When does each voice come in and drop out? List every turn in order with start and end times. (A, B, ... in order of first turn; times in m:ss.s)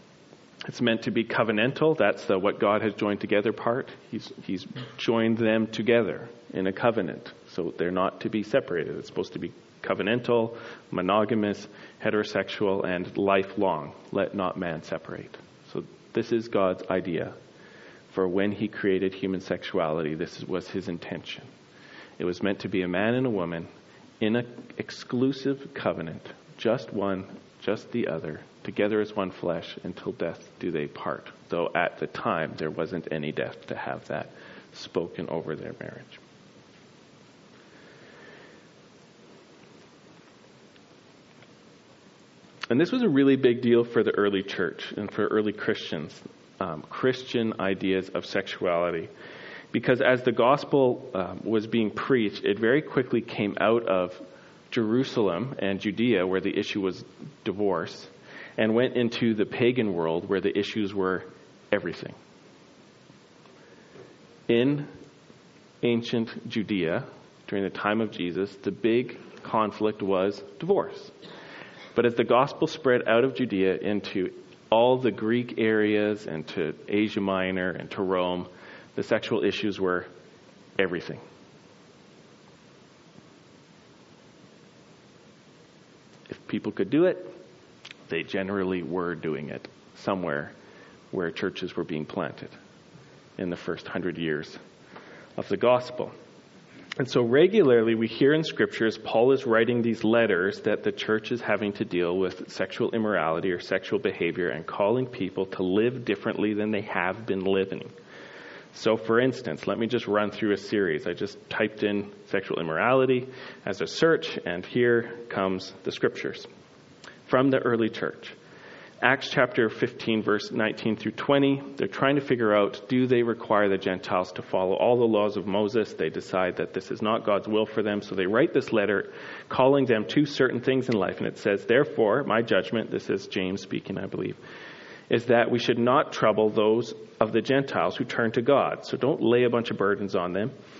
0:00.6-0:17.4 A
0:18.1-0:21.5 A
0:22.2-0:23.7 A
0:24.2-0:36.2 A
0:42.7-0:49.1 A
0:49.7-1:02.2 A
1:04.5-1:04.9 A
1:05.8-1:11.1 A
1:11.9-1:20.1 A
1:20.8-1:21.2 A
1:26.3-1:27.3 A
1:28.1-1:30.5 A
1:31.1-1:32.5 A
1:33.4-1:34.6 A
1:35.4-1:36.1 A
1:37.0-1:47.9 A
1:48.7-1:56.5 A
1:57.2-1:58.4 A
1:59.0-2:14.4 A
2:15.1-2:20.5 A